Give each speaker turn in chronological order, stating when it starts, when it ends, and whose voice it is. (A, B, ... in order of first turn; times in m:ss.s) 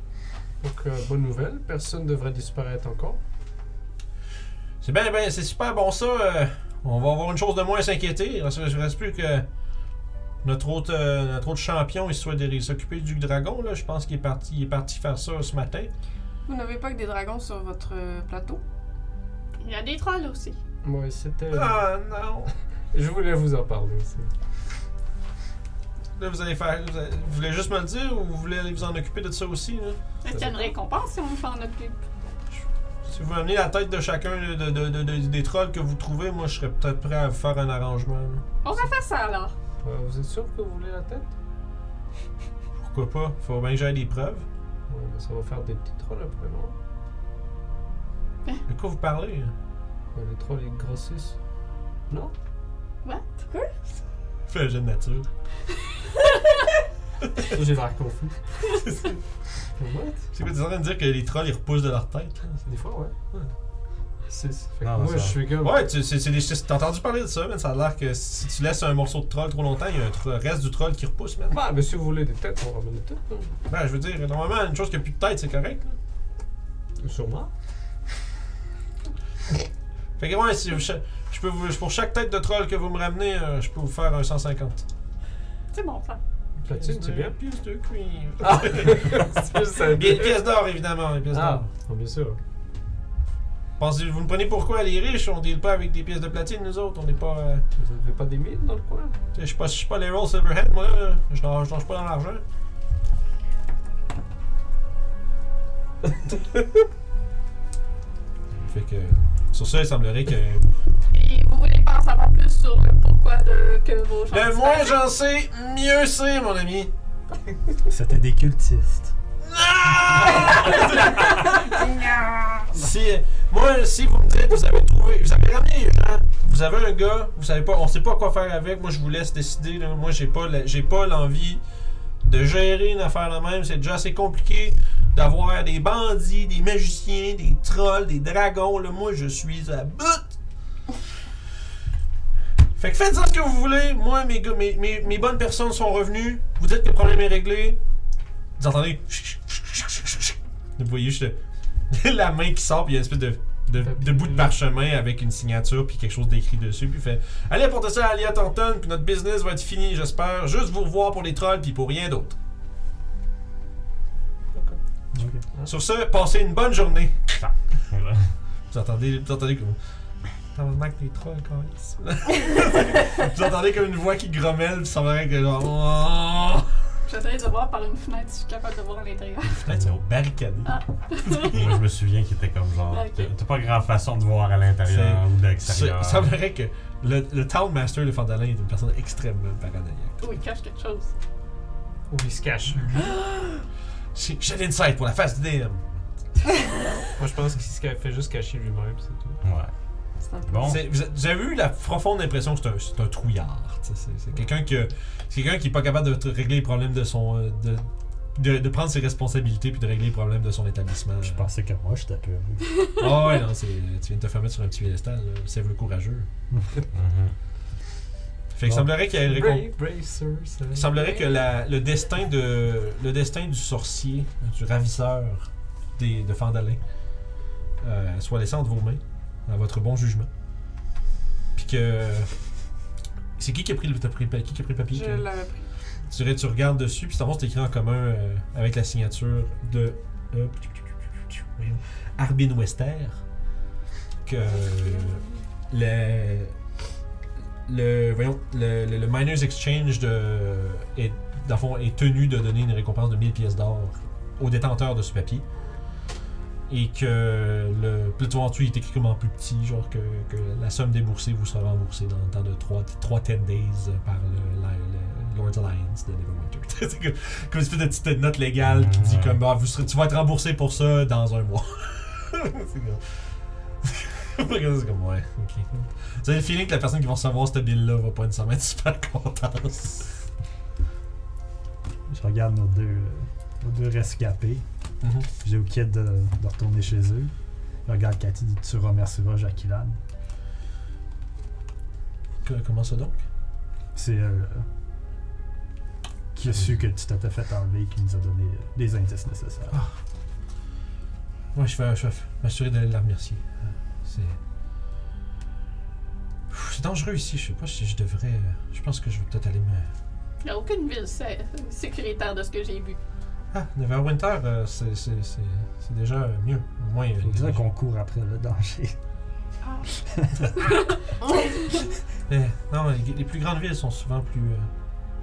0:00.6-0:03.2 A
0:04.8-0:09.5 B
0:10.4-0:15.9 B
0:16.5-0:18.6 C
0:19.6-0:20.6 D
0:20.8-0:21.8 A
0:21.5-0:22.5 B
0:22.9-0:24.3 A
0:26.2-0:30.0 B
0:30.2-0:32.0 D
0:30.3-0:30.7 A
0:33.1-0:38.4 B
0:38.6-0:39.5 D
0:39.8-0:41.3 A
0:42.8-0:44.5 B
0:44.9-0:46.7 A
0:48.7-0:49.5 B
0:50.1-0:51.4 A
0:53.0-0:53.5 D
0:54.5-0:55.3 B
0:57.4-0:58.4 A
0:59.8-1:00.2 A
1:00.3-1:02.7 B
1:02.7-1:03.1 A
1:04.3-1:05.9 A
1:04.8-1:05.4 E
1:05.6-1:11.6 B
1:11.5-1:13.5 A
1:13.7-1:16.0 B
1:17.0-1:17.5 A
1:20.2-1:24.9 B
1:25.7-1:26.2 D
1:26.6-1:27.4 A
1:26.7-1:31.7 B
1:28.4-1:30.4 A
1:31.3-1:32.4 A
1:33.8-1:37.6 B
1:37.8-1:39.2 A
1:39.3-1:42.4 B
1:48.6-1:50.6 B
1:51.1-1:55.0 D
1:54.3-1:56.9 B
1:57.9-1:59.1 F
1:59.4-2:01.9 B
2:00.0-2:00.6 F
2:01.5-2:02.7 C
2:02.7-2:11.6 B
2:12.2-2:20.3 B
2:22.8-2:27.8 B
2:28.6-2:31.4 B
2:31.9-2:42.4 B
2:33.8-2:34.6 A
2:44.5-2:44.8 A
2:45.1-2:45.4 F
2:45.7-2:47.4 B
2:47.9-2:48.3 E
2:48.7-2:49.8 B
2:50.5-2:56.8 B
2:57.1-2:59.6 D
2:59.4-3:01.8 B
2:59.7-3:00.0 E
3:00.7-3:01.5 D
3:01.4-3:06.4 E
3:02.9-3:03.3 D
3:04.9-3:10.2 B
3:10.2-3:11.1 D
3:12.1-3:13.0 A
3:14.1-3:16.0 B
3:17.2-3:19.4 A
3:19.4-3:19.7 E
3:20.2-3:20.8 C
3:20.4-3:20.8 E
3:20.6-3:31.5 B
3:31.2-3:32.6 F
3:33.0-3:36.3 B
3:36.9-3:37.3 E
3:38.5-3:39.7 B
3:39.0-3:41.2 A
3:40.7-3:46.8 B
3:47.8-3:50.3 B
3:51.6-3:52.4 B
3:53.4-3:55.3 B
3:54.9-3:55.7 C
3:56.1-4:03.2 B
4:04.2-4:06.6 B
4:07.7-4:15.5 B
4:16.7-4:33.2 B
4:28.6-4:29.4 E
4:33.8-4:40.1 B
4:42.1-4:44.6 F
4:45.0-4:45.3 B
4:45.4-4:47.3 F
4:47.8-4:50.0 F
4:52.4-4:53.2 B
4:54.0-4:54.7 F
4:56.3-4:59.8 F
5:01.6-5:03.4 B
5:04.0-5:04.4 B
5:06.5-5:09.9 B
5:10.4-5:13.0 D
5:13.5-5:17.6 B
5:17.2-5:19.0 F
5:19.6-5:19.9 D
5:20.1-5:20.5 F
5:20.6-5:20.8 D
5:22.3-5:24.7 B